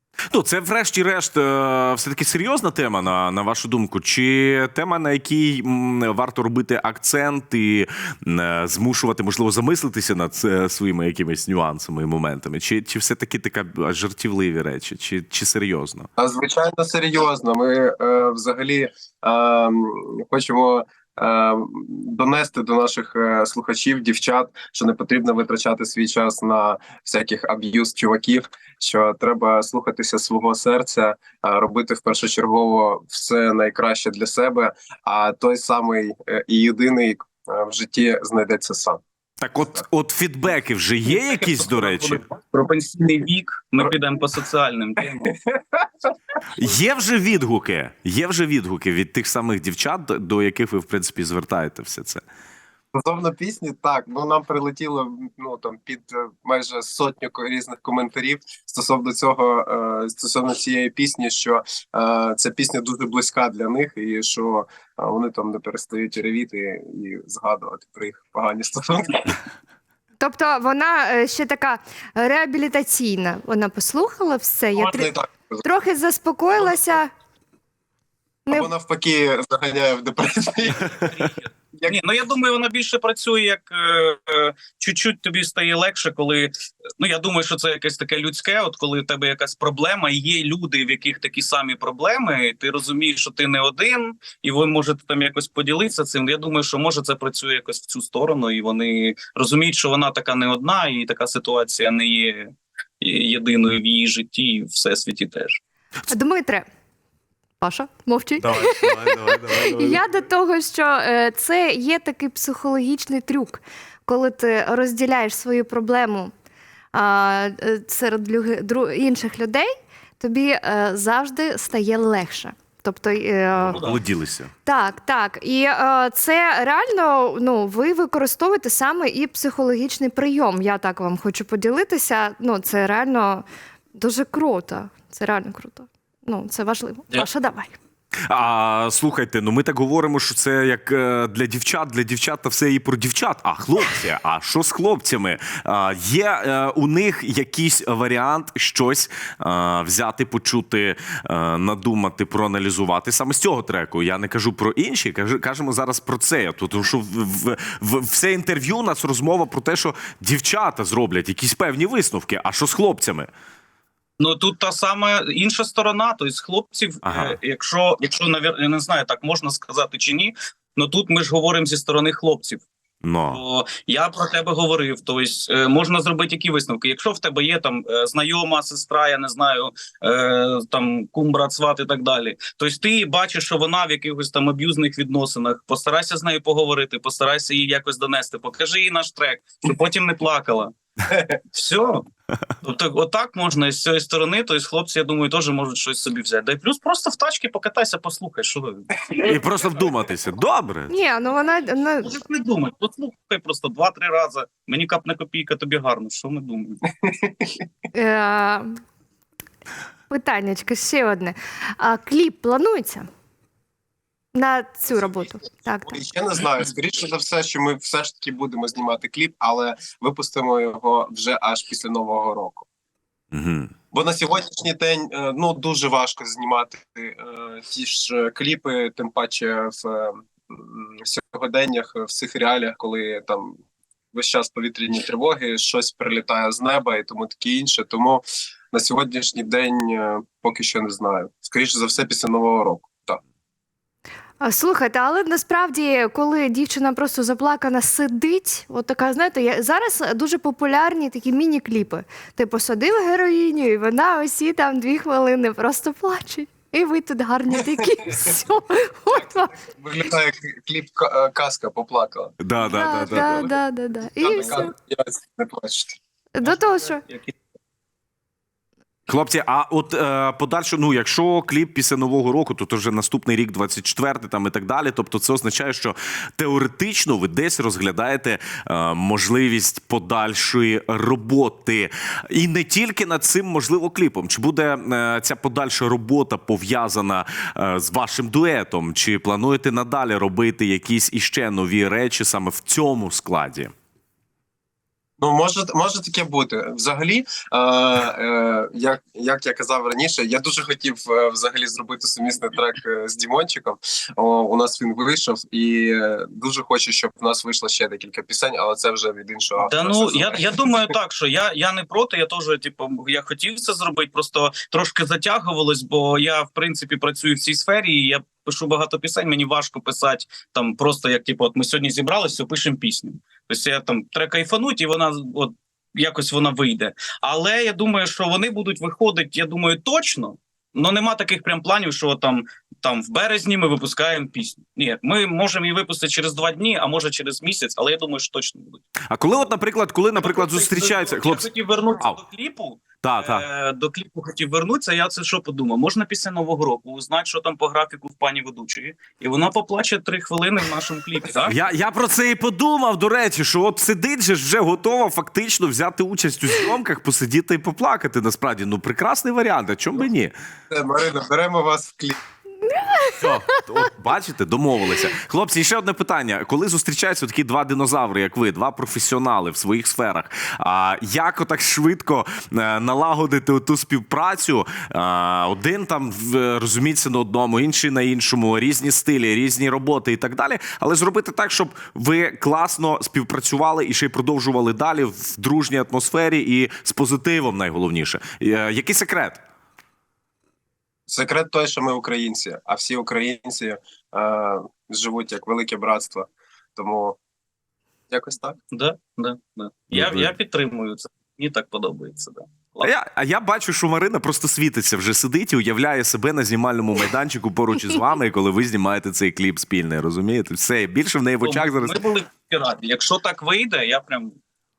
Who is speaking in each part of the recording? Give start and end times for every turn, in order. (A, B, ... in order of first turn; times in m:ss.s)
0:00.3-0:16.1 A
0:16.2-0:39.0 B
0:39.4-0:42.2 A
0:41.1-0:45.2 C
0:45.1-0:45.9 B
0:46.6-0:52.2 A
0:52.9-1:09.4 B
1:10.2-1:15.1 D
1:14.8-1:15.3 B
1:15.6-1:17.1 D
1:18.5-1:21.1 B
1:20.7-1:42.5 C
1:43.0-1:45.6 C
1:46.1-1:46.7 D
1:47.6-1:56.3 D
1:48.4-1:50.0 A
1:56.9-2:03.8 D
2:03.6-2:04.5 A
2:03.7-2:04.0 C
2:04.6-2:17.8 D
2:18.3-2:43.3 A
2:44.2-2:52.6 C
2:47.0-2:47.4 A
2:53.0-2:53.4 A
2:53.3-3:10.7 C
3:11.5-3:12.0 C
3:12.6-3:19.4 C
3:19.2-3:20.9 A
3:20.9-3:22.1 D
3:22.0-3:26.8 C
3:27.0-3:27.6 B
3:27.9-3:28.7 D
3:30.1-3:33.1 D
3:34.3-3:36.0 D
3:34.9-3:35.3 B
3:35.9-3:42.6 B
3:43.3-3:43.7 A
3:43.9-3:53.6 B
3:54.1-4:03.2 B
4:04.4-4:19.5 D
4:19.1-4:22.4 B
4:22.4-4:23.5 A
4:22.6-4:24.7 D
4:23.1-4:23.4 B
4:24.2-4:26.0 B
4:26.3-4:27.0 D
4:26.4-4:27.3 C
4:29.1-4:53.7 A
4:55.2-5:10.5 B
5:09.6-5:38.8 C
5:39.1-5:41.5 A
5:40.2-5:51.6 C
5:43.0-5:43.4 A
5:51.5-6:00.3 A
6:00.7-6:02.2 B
6:02.6-6:03.7 D
6:03.2-6:29.4 A
6:31.1-6:37.2 B
6:38.1-6:38.6 B
6:38.7-6:42.9 C
6:39.9-6:40.3 A
6:42.8-6:52.0 A
6:51.4-6:54.4 C